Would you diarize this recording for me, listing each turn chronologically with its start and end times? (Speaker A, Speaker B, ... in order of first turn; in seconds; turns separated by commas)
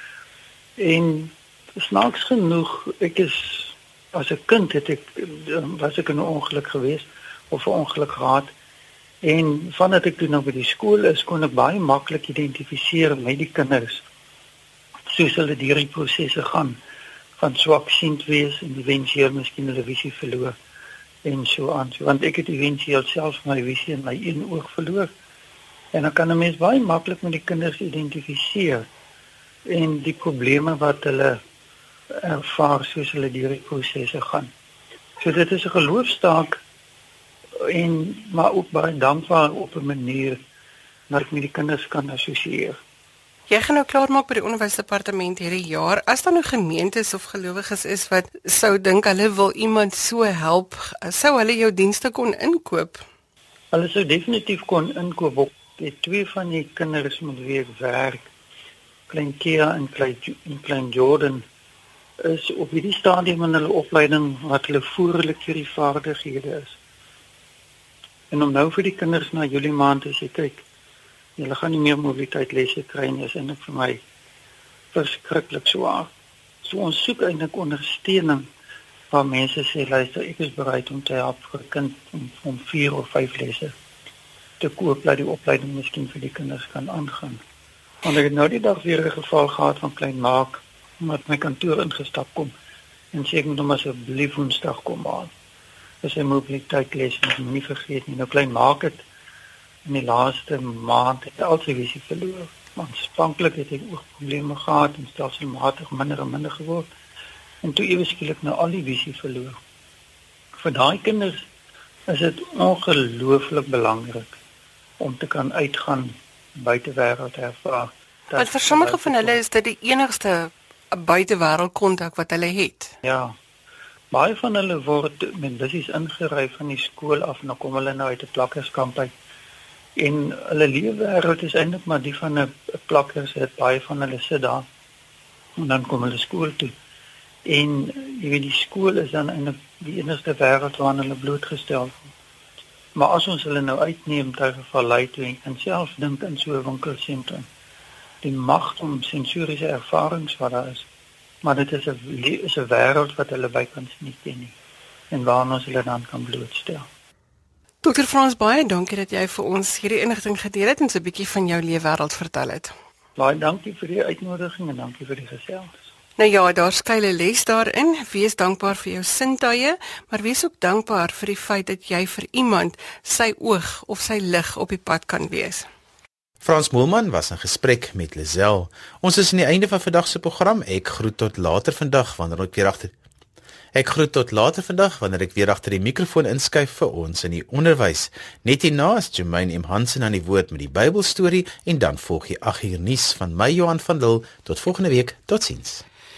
Speaker A: 0.8-8.5, Speaker A: 9.2-14.0, Speaker A: 15.1-16.8, Speaker A: 17.4-20.5, Speaker A: 21.2-25.1, Speaker A: 25.9-28.9, Speaker A: 29.7-31.4, Speaker A: 32.2-34.5, Speaker A: 35.2-36.6, Speaker A: 37.7-40.4, Speaker A: 41.1-42.8, Speaker B: 43.5-53.0, Speaker A: 53.7-58.3, Speaker A: 59.1-61.4, Speaker A: 62.2-66.8, Speaker A: 68.3-70.6, Speaker A: 71.4-74.0, Speaker A: 74.9-76.1, Speaker A: 76.6-78.5, Speaker A: 79.1-83.7, Speaker A: 84.6-87.4, Speaker A: 88.0-92.5, Speaker A: 93.1-95.3, Speaker A: 96.0-99.0, Speaker A: 99.8-106.9, Speaker A: 107.6-109.6, Speaker A: 110.6-111.5, Speaker A: 112.1-114.3, Speaker A: 115.0-119.4, Speaker B: 118.3-122.9, Speaker A: 123.0-123.3, Speaker A: 124.1-129.1, Speaker A: 130.0-134.7, Speaker A: 135.6-136.7, Speaker A: 137.4-142.1, Speaker A: 142.9-147.4, Speaker A: 148.2-150.8, Speaker A: 151.4-154.5, Speaker A: 155.1-156.9, Speaker B: 157.8-162.7, Speaker A: 163.2-165.8, Speaker B: 166.2-175.7, Speaker C: 176.4-182.9, Speaker C: 183.7-195.8